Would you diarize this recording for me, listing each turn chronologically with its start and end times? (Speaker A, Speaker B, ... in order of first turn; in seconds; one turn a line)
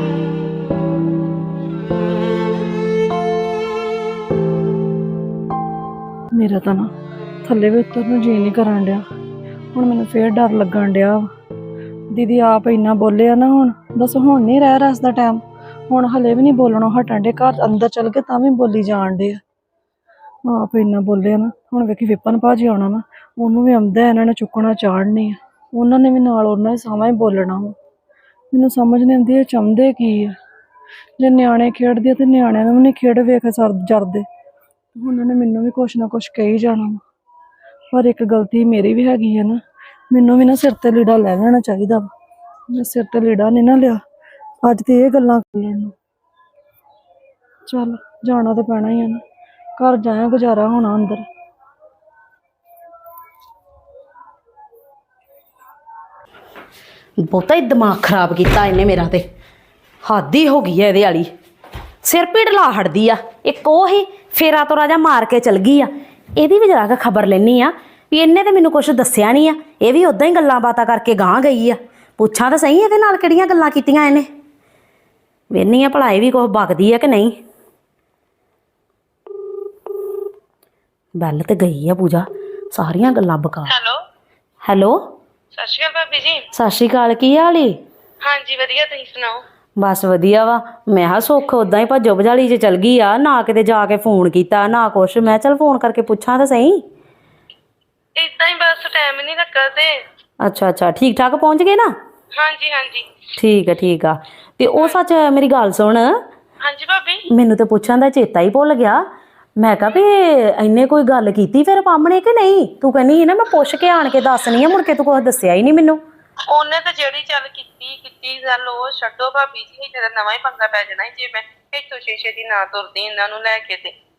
Speaker A: 6.3-6.9
Speaker A: 7.4-9.0
Speaker A: 9.7-11.3
Speaker A: 12.1-19.4
Speaker A: 20.5-27.7
Speaker A: 28.5-30.3
Speaker A: 31.2-34.2
Speaker A: 35.0-37.0
Speaker A: 37.9-39.6
Speaker A: 40.1-42.1
Speaker A: 42.7-44.0
Speaker A: 44.6-45.9
Speaker A: 47.7-49.2
Speaker A: 49.8-51.2
Speaker B: 57.2-59.2
Speaker B: 60.0-61.3
Speaker B: 62.0-74.3
Speaker B: 75.5-77.3
Speaker B: 81.2-83.7
Speaker B: 84.6-85.0
Speaker C: 85.6-86.4
Speaker B: 86.5-87.8
Speaker C: 88.2-89.4
Speaker B: 89.8-96.8
Speaker C: 98.2-100.0
Speaker B: 100.4-101.9
Speaker C: 102.4-103.0
Speaker B: 103.4-106.1
Speaker C: 106.7-107.2
Speaker B: 107.3-109.0
Speaker B: 109.6-116.0
Speaker C: 116.5-123.9